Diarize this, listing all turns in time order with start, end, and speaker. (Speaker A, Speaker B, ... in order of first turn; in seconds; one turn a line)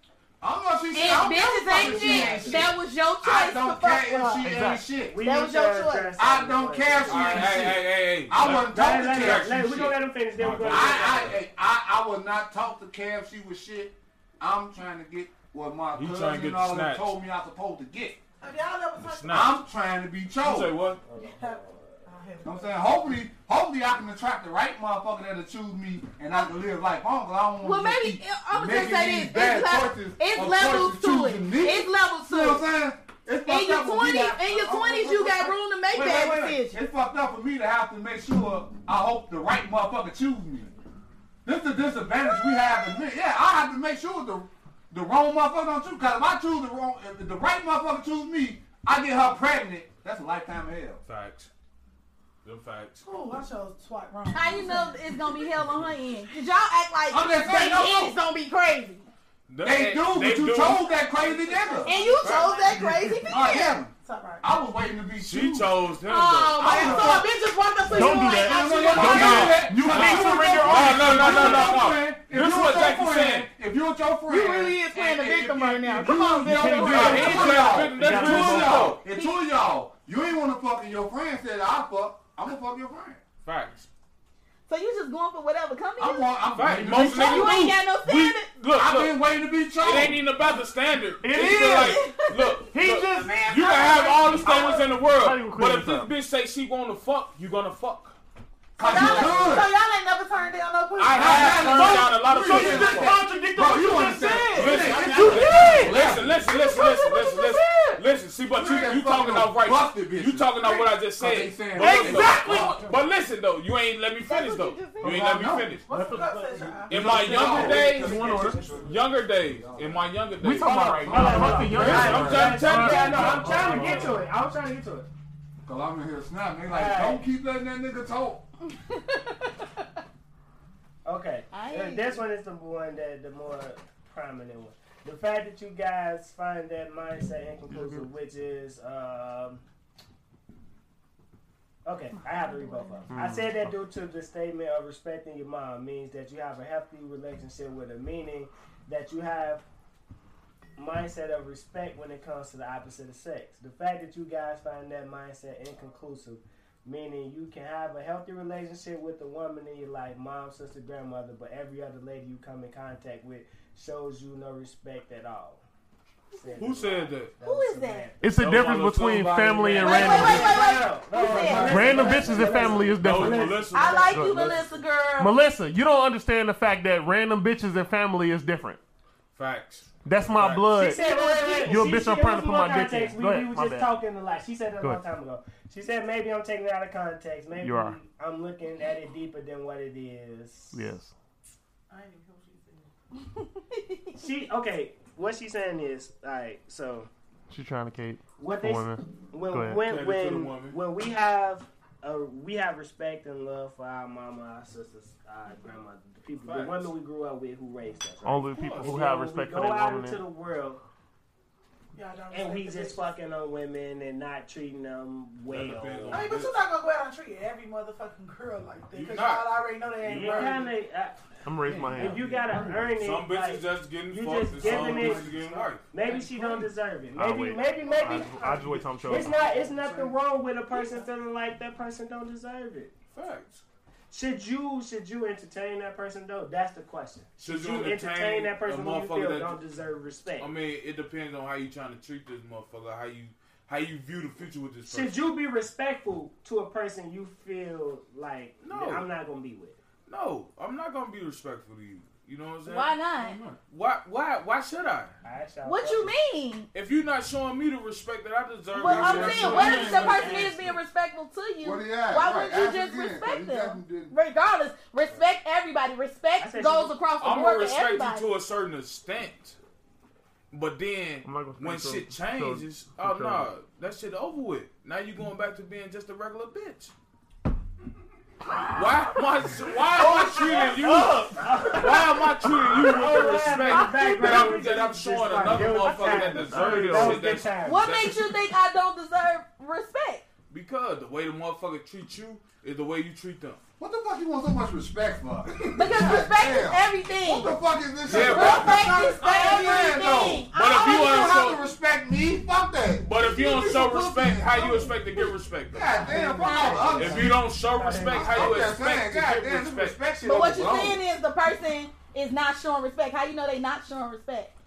Speaker A: 0.4-5.2
Speaker B: 0.9-4.6
Speaker C: 1.8-2.5
Speaker D: 4.4-4.8
Speaker C: 5.1-7.7
Speaker B: 5.2-6.2
Speaker A: 6.2-9.5
Speaker E: 7.1-11.4
Speaker C: 8.5-11.3
Speaker A: 10.6-18.2
Speaker E: 15.9-17.1
Speaker F: 18.4-19.5
Speaker E: 19.0-19.5
Speaker A: 19.3-20.8
Speaker E: 20.4-21.0
Speaker C: 21.0-22.1
Speaker F: 21.2-22.7
Speaker A: 22.4-40.7
Speaker B: 27.6-32.7
Speaker B: 33.4-36.8
Speaker A: 41.5-51.0
Speaker E: 51.1-51.5
Speaker E: 52.4-53.0
Speaker F: 53.0-55.5
Speaker B: 54.3-59.1
Speaker A: 57.1-58.2
Speaker E: 59.5-61.0
Speaker A: 59.6-62.0
Speaker F: 61.0-63.1
Speaker B: 61.8-64.4
Speaker E: 62.0-62.6
Speaker A: 62.7-65.7
Speaker F: 64.0-64.4
Speaker E: 65.2-67.2
Speaker B: 66.1-69.7
Speaker A: 66.6-67.3
Speaker D: 67.9-71.8
Speaker A: 68.3-83.2
Speaker E: 68.9-73.5
Speaker B: 74.3-77.9
Speaker D: 76.4-79.0
Speaker E: 76.8-79.0
Speaker B: 79.1-79.4
Speaker E: 83.5-83.9
Speaker B: 84.7-88.5
Speaker A: 86.0-87.7
Speaker E: 86.5-89.2
Speaker A: 88.7-90.3
Speaker E: 89.8-98.2
Speaker D: 91.2-92.0
Speaker A: 91.3-92.0
Speaker B: 91.7-92.6
Speaker D: 92.7-93.3
Speaker F: 93.1-94.9
Speaker D: 95.1-96.1
Speaker F: 98.8-102.8
Speaker A: 98.8-99.7
Speaker B: 98.9-99.5
Speaker E: 98.9-99.4
Speaker E: 101.0-103.2
Speaker A: 101.1-106.4
Speaker D: 101.6-105.9
Speaker F: 103.8-108.0
Speaker E: 104.5-115.8
Speaker A: 108.5-112.9
Speaker D: 111.8-112.8
Speaker F: 111.8-112.9
Speaker B: 114.2-115.2
Speaker A: 115.0-115.8
Speaker F: 115.9-118.9
Speaker D: 115.9-118.7
Speaker A: 116.9-120.1
Speaker E: 116.9-124.2
Speaker D: 120.4-124.2
Speaker C: 120.6-125.1
Speaker A: 120.7-122.5
Speaker A: 125.6-128.5
Speaker C: 126.7-127.3
Speaker B: 128.7-129.8
Speaker C: 131.1-139.6
Speaker B: 131.5-132.2
Speaker D: 137.7-138.1
Speaker C: 141.9-149.7
Speaker D: 143.1-143.7
Speaker C: 150.8-165.6
Speaker C: 166.3-168.4
Speaker E: 166.6-167.3
Speaker B: 167.4-168.1
Speaker D: 168.2-170.6
Speaker E: 168.4-170.5
Speaker B: 169.8-172.0
Speaker C: 169.8-174.8
Speaker A: 170.0-172.8
Speaker D: 171.6-174.6
Speaker E: 171.9-174.8
Speaker B: 173.7-175.3
Speaker D: 175.2-178.8
Speaker E: 179.3-180.8
Speaker D: 180.1-184.0
Speaker C: 180.7-190.8
Speaker B: 180.9-182.1
Speaker D: 187.6-188.0
Speaker D: 190.7-191.1
Speaker F: 191.9-192.9
Speaker B: 193.3-194.2
Speaker C: 194.2-197.1
Speaker D: 197.5-199.8
Speaker C: 198.4-210.8
Speaker E: 199.8-200.8
Speaker E: 206.4-206.9
Speaker D: 208.2-210.2
Speaker E: 208.5-208.9
Speaker F: 211.9-213.1
Speaker C: 212.3-216.3
Speaker E: 215.5-216.5
Speaker F: 216.1-220.7
Speaker E: 218.9-219.5
Speaker C: 220.0-225.3
Speaker D: 221.4-222.9
Speaker E: 223.0-226.6
Speaker F: 224.6-226.4
Speaker C: 225.9-232.9
Speaker D: 227.2-229.4
Speaker F: 229.2-230.2
Speaker F: 230.7-231.1
Speaker E: 233.1-233.6
Speaker C: 234.1-240.5
Speaker E: 237.4-239.6
Speaker E: 240.4-245.2
Speaker C: 244.9-249.8
Speaker E: 248.7-249.1
Speaker E: 250.1-255.2
Speaker B: 252.7-253.4
Speaker C: 255.2-256.1
Speaker B: 255.7-256.7
Speaker E: 256.7-260.8
Speaker B: 258.7-268.3
Speaker A: 258.8-260.5
Speaker A: 261.6-264.1
Speaker C: 266.4-267.0
Speaker E: 267.2-269.6
Speaker E: 270.5-276.9
Speaker D: 271.2-273.5
Speaker D: 278.5-282.8
Speaker E: 278.7-288.4
Speaker C: 281.4-282.1
Speaker C: 282.7-287.8
Speaker D: 283.7-284.5
Speaker D: 285.4-287.3
Speaker B: 287.6-290.2
Speaker E: 290.5-293.6
Speaker A: 293.8-307.4
Speaker B: 295.7-297.6
Speaker E: 298.1-299.0
Speaker B: 298.1-301.6
Speaker E: 300.5-301.7
Speaker E: 303.0-306.1
Speaker C: 306.0-308.6
Speaker B: 306.5-306.9
Speaker E: 306.9-310.0
Speaker A: 308.0-311.0
Speaker B: 310.2-314.5